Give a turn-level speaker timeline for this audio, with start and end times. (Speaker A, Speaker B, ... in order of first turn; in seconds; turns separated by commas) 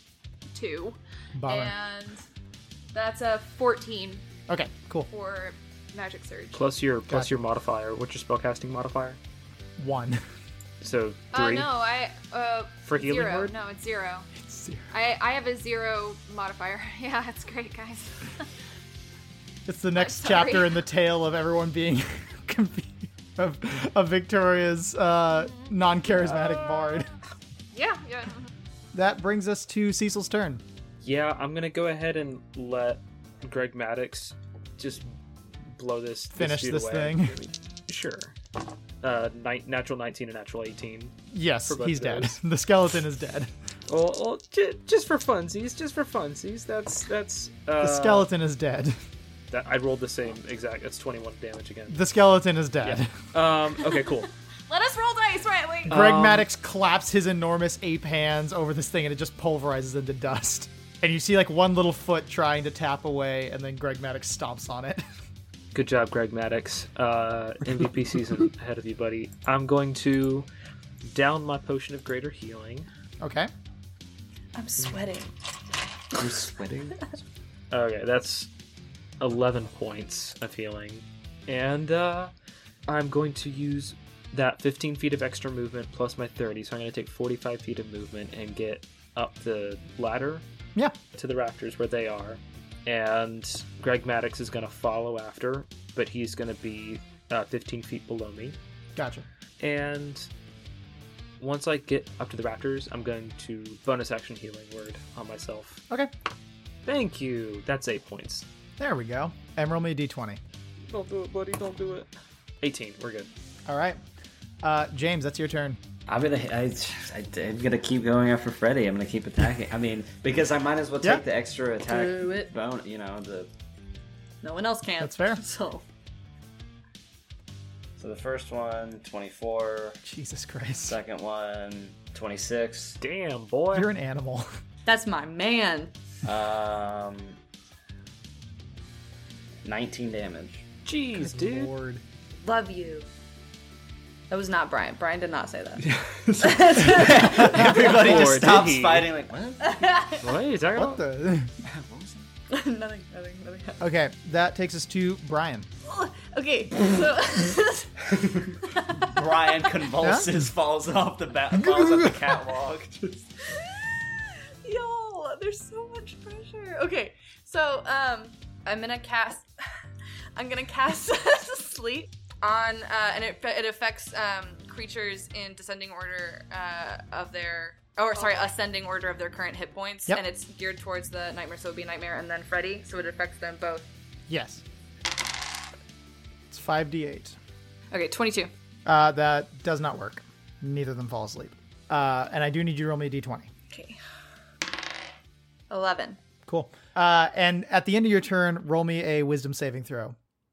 Speaker A: 0.5-2.2, Speaker B: 1.4-1.7, Speaker A: 2.9-4.2, Speaker B: 4.5-5.1, Speaker A: 5.1-6.7, Speaker C: 6.5-9.2, Speaker B: 9.8-10.2, Speaker C: 10.8-11.7, Speaker A: 11.3-14.3, Speaker C: 12.9-13.5, Speaker B: 14.4-14.9, Speaker A: 14.9-18.3, Speaker B: 19.7-27.1, Speaker A: 20.0-20.8, Speaker A: 25.3-25.8, Speaker A: 27.7-28.5, Speaker B: 28.9-30.6, Speaker C: 31.0-35.1, Speaker C: 35.7-38.4, Speaker B: 36.4-37.4, Speaker C: 39.0-41.1, Speaker B: 41.3-43.5, Speaker C: 41.7-42.4, Speaker C: 43.9-48.3, Speaker B: 47.8-49.0, Speaker C: 49.5-52.0, Speaker B: 51.9-53.1, Speaker C: 52.8-54.3, Speaker A: 54.7-56.0, Speaker B: 55.9-65.0, Speaker C: 55.9-56.5, Speaker C: 65.7-70.5, Speaker C: 71.0-72.9, Speaker B: 73.2-73.5, Speaker D: 74.5-75.3, Speaker C: 76.2-77.1, Speaker C: 77.7-78.5, Speaker C: 79.2-82.3, Speaker C: 82.9-90.4, Speaker C: 91.1-98.6, Speaker B: 99.0-99.3, Speaker C: 99.6-100.3, Speaker C: 101.4-105.8, Speaker C: 106.9-108.5, Speaker B: 108.8-110.4, Speaker C: 110.9-112.1, Speaker C: 112.6-113.3, Speaker B: 113.7-114.0, Speaker B: 114.6-115.8, Speaker E: 116.1-123.5, Speaker D: 121.9-122.5, Speaker D: 124.4-125.8, Speaker B: 125.0-125.4, Speaker E: 128.0-130.0, Speaker B: 130.0-131.0, Speaker E: 130.8-133.0, Speaker C: 133.0-133.9, Speaker B: 133.7-134.5, Speaker D: 134.9-135.9, Speaker E: 136.2-137.4, Speaker E: 139.6-140.6, Speaker C: 140.8-141.7, Speaker B: 141.2-142.0, Speaker D: 142.4-143.1, Speaker D: 144.3-145.8, Speaker D: 146.4-147.8, Speaker E: 146.8-150.1, Speaker B: 147.2-148.3, Speaker C: 147.6-149.1, Speaker D: 149.6-150.3, Speaker C: 150.2-151.0, Speaker B: 150.8-151.5, Speaker E: 151.6-152.3, Speaker D: 152.5-153.8, Speaker B: 153.8-155.7, Speaker D: 155.8-158.1, Speaker E: 158.1-158.5, Speaker D: 158.7-159.7, Speaker E: 159.1-163.2, Speaker B: 160.0-160.3, Speaker B: 161.5-162.4, Speaker D: 163.5-164.1, Speaker D: 164.6-169.5, Speaker D: 170.4-183.9, Speaker A: 178.2-178.5, Speaker B: 184.3-184.6, Speaker B: 186.5-187.4, Speaker D: 187.9-188.5, Speaker B: 188.9-193.5, Speaker D: 193.7-194.0, Speaker D: 195.7-196.2, Speaker B: 196.5-200.2